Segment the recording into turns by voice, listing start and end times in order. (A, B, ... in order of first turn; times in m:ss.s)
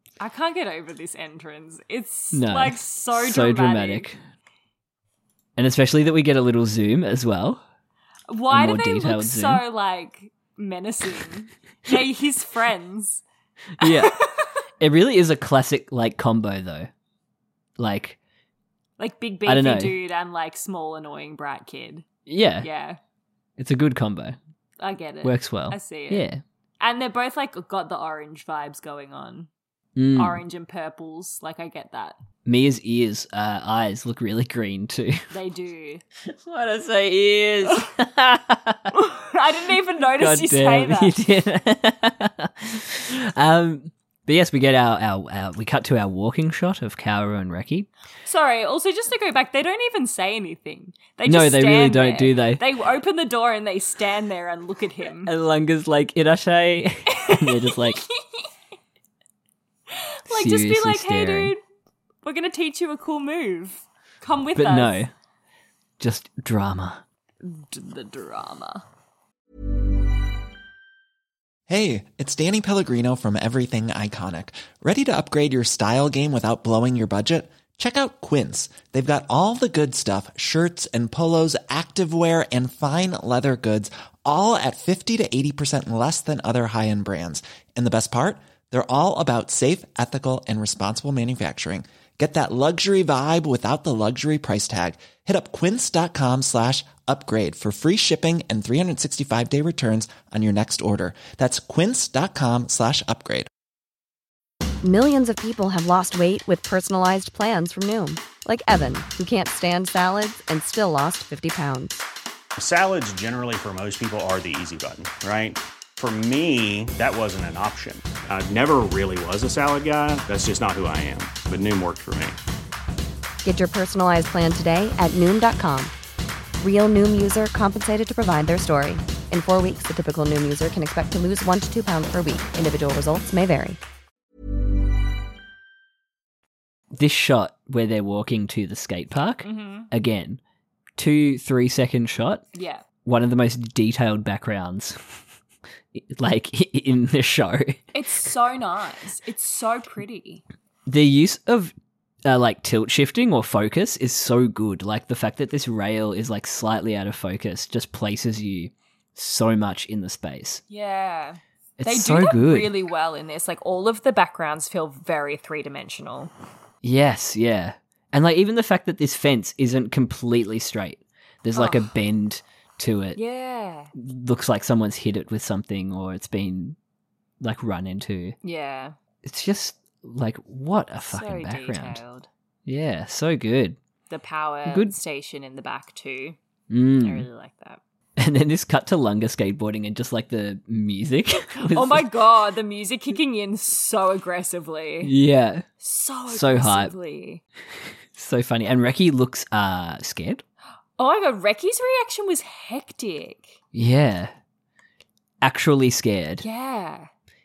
0:00.2-0:04.1 A
0:02.3-0:04.2 B
0:05.6-0:07.6 B
0:08.3-0:13.2 A
0:08.5-0:09.6 B
0:13.8-0:14.2 B
0:13.8-0:14.5 A
0:14.8-0:16.9 B
0:17.8-0:18.2 B
0:19.0-0:22.0 A
0:19.4-0:20.0 B
0:22.2-0:22.7 B
0:22.6-0:23.0 A
0:23.6-0:24.4 B
0:24.8-0:26.3 A
0:25.2-0:26.4 B
0:26.8-0:29.5 A
0:30.0-0:30.4 B
0:30.1-0:32.2 A
0:32.4-0:35.3 B
0:35.3-0:36.0 A
0:36.2-0:39.0 B
0:38.9-0:41.2 A
0:40.2-0:47.9 B
0:48.2-0:55.3 A
0:51.2-0:52.6 B
0:55.2-0:58.0 B
0:57.1-0:58.5 A
0:59.9-1:01.6 A
1:00.3-1:01.5 B
1:02.2-1:05.1 A
1:04.5-1:05.1 B
1:06.0-1:07.0 B
1:07.4-1:08.8 A
1:11.7-1:43.5 C
1:44.8-1:52.0 D
1:52.6-2:02.4 E
2:03.4-2:05.9 D
2:06.6-2:13.8 D
2:16.9-2:20.4 B
2:19.4-2:19.9 A
2:21.0-2:22.4 B
2:22.5-2:22.8 A
2:23.0-2:25.2 B
2:25.9-2:27.9 B
2:27.9-2:30.4 A
2:30.8-2:31.7 B
2:32.2-2:40.6 B
2:40.7-2:46.3 A
2:41.8-2:42.7 B
2:46.8-2:53.2 B
2:51.5-2:51.9 A
2:53.1-2:53.9 A
2:53.9-2:56.8 B
2:57.4-2:58.4 B
2:58.4-2:58.9 A
2:59.2-3:02.0 B
3:01.1-3:02.3 A
3:02.6-3:03.8 B
3:04.1-3:06.4 A
3:04.7-3:04.9 B
3:06.7-3:07.2 B
3:07.0-3:07.8 A
3:08.2-3:12.1 B
3:11.7-3:15.1 A
3:15.0-3:15.7 B
3:15.8-3:17.4 A
3:16.3-3:16.9 B
3:18.1-3:20.4 B
3:21.0-3:23.6 A
3:23.7-3:24.3 B
3:25.4-3:26.4 B
3:26.4-3:27.1 A